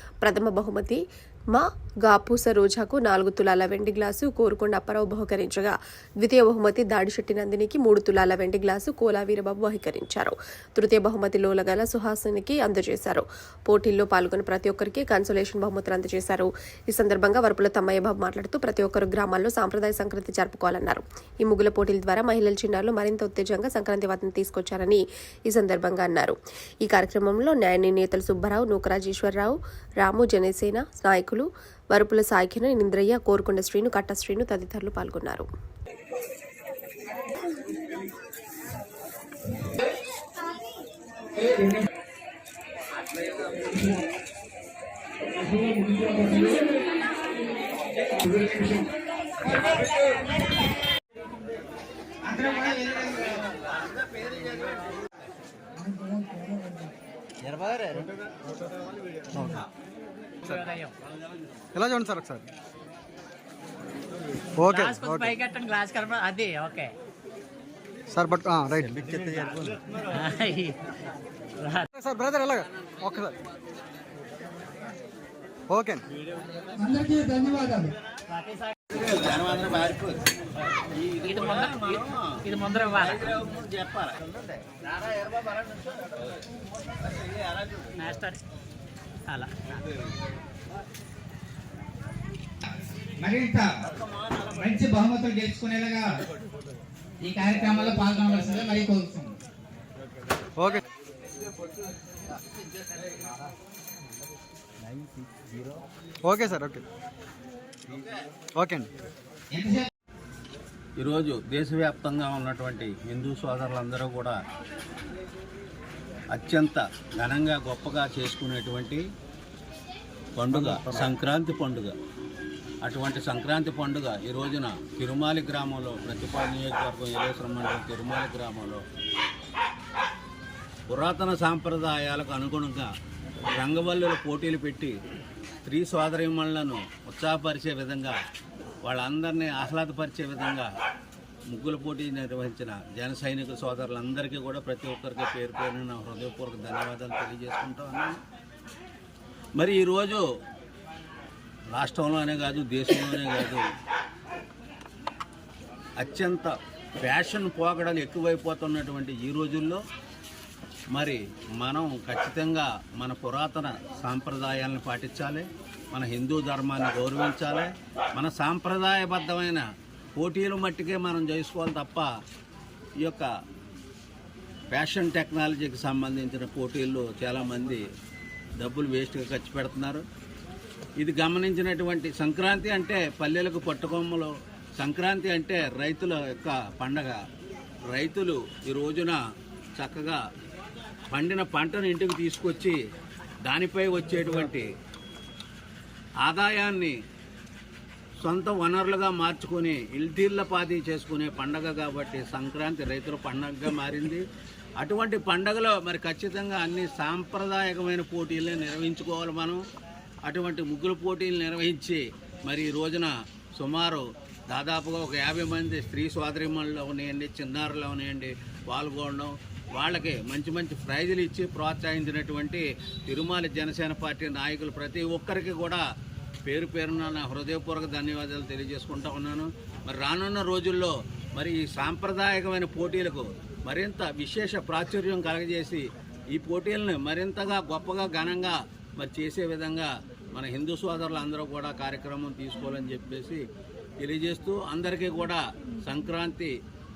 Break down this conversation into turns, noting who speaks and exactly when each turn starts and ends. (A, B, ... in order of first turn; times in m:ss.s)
0:00.2-0:35.5 A
0:45.9-0:46.5 B
0:52.2-0:53.5 C
0:59.3-0:59.6 B
1:00.5-1:00.9 D
1:01.7-1:02.4 B
1:04.6-1:05.4 B
1:04.7-1:06.9 D
1:08.1-1:08.9 B
1:08.8-1:09.8 E
1:10.2-1:10.8 D
1:11.6-1:11.9 D
1:11.9-1:13.4 B
1:15.7-1:16.0 B
1:16.8-1:17.9 C
1:18.9-1:20.2 E
1:20.9-1:24.4 E
1:21.2-1:23.3 D
1:28.0-1:28.4 D
1:29.3-1:29.6 D
1:33.2-1:33.8 C
1:34.5-1:36.2 C
1:37.2-1:39.4 C
1:46.2-1:46.8 B
1:48.6-1:48.9 B
1:49.5-1:49.9 C
1:51.0-1:54.4 E
1:56.3-1:59.0 E
2:00.4-2:01.9 E
2:00.6-2:00.9 B
2:02.8-2:08.8 E
2:10.9-2:12.9 E
2:13.6-2:14.9 E
2:15.6-2:18.2 E
2:18.8-2:20.7 E
2:21.5-2:28.2 E
2:29.6-2:30.2 E
2:31.7-2:33.6 E
2:36.0-2:39.8 E
2:40.9-2:49.6 E
2:50.2-2:52.1 E
2:53.0-2:53.3 E
2:54.7-2:57.8 E
2:58.6-3:00.0 E
3:01.0-3:07.2 E
3:07.9-3:09.2 E
3:09.8-3:10.2 E
3:11.1-3:12.8 E
3:13.4-3:14.7 E
3:16.2-3:17.0 E
3:18.2-3:24.2 E
3:24.8-3:29.6 E
3:30.3-3:45.8 E
3:46.5-4:03.4 E
4:04.0-4:06.5 E